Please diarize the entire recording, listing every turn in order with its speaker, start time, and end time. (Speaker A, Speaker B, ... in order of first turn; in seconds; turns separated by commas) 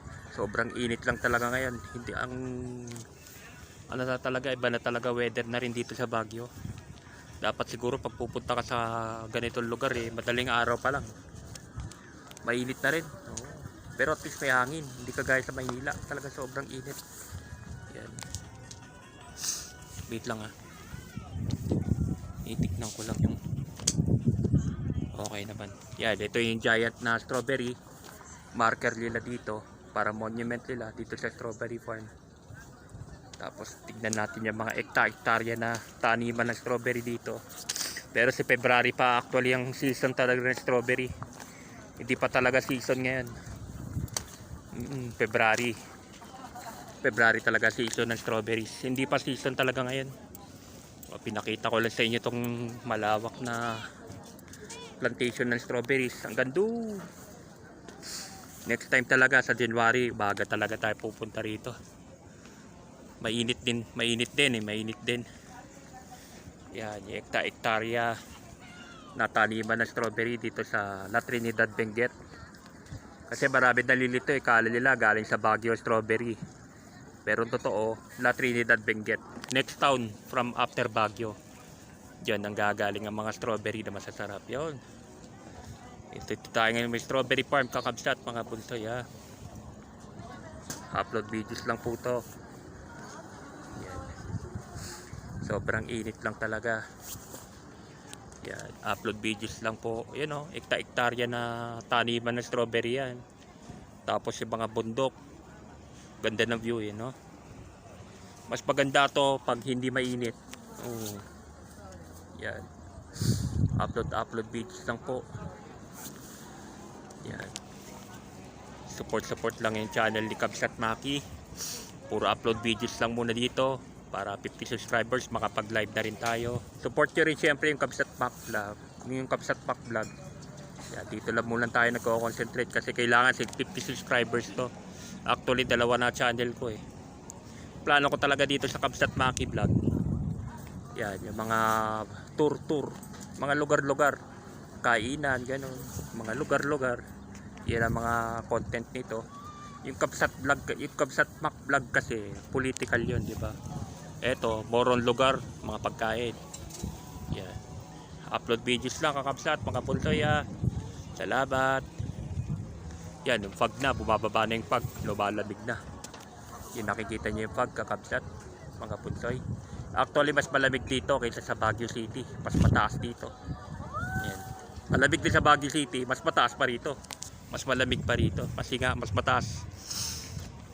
Speaker A: 0.3-3.0, Speaker A: 3.9-6.5, Speaker A: 7.4-11.1, Speaker A: 12.4-17.0, Speaker A: 17.9-18.2, Speaker A: 20.1-20.5, Speaker A: 22.4-23.4, Speaker A: 25.1-27.8, Speaker A: 28.6-32.1, Speaker A: 33.4-41.1, Speaker A: 42.0-43.3, Speaker A: 44.7-45.8, Speaker A: 47.0-50.1, Speaker A: 51.1-53.8, Speaker A: 55.0-57.1, Speaker A: 58.7-61.8, Speaker A: 63.2-65.2, Speaker A: 66.7-68.2, Speaker A: 69.2-72.1, Speaker A: 73.3-76.4, Speaker A: 77.2-81.4, Speaker A: 82.2-84.8, Speaker A: 86.1-89.0, Speaker A: 90.9-92.2, Speaker A: 93.8-94.3, Speaker A: 95.4-96.8, Speaker A: 98.4-103.2, Speaker A: 104.1-105.1, Speaker A: 106.2-107.1, Speaker A: 108.5-111.2, Speaker A: 112.4-112.7, Speaker A: 113.3-115.2, Speaker A: 117.2-117.5, Speaker A: 118.9-121.2, Speaker A: 122.1-130.1, Speaker A: 130.9-134.7, Speaker A: 135.3-136.8, Speaker A: 137.8-139.8, Speaker A: 141.0-144.2, Speaker A: 144.8-147.0, Speaker A: 147.7-149.2, Speaker A: 149.8-153.6, Speaker A: 154.2-156.4, Speaker A: 157.3-157.6, Speaker A: 158.3-160.4, Speaker A: 161.2-161.9, Speaker A: 163.3-165.8, Speaker A: 166.8-168.2, Speaker A: 168.8-169.4, Speaker A: 170.0-173.3, Speaker A: 174.2-177.0, Speaker A: 177.5-179.5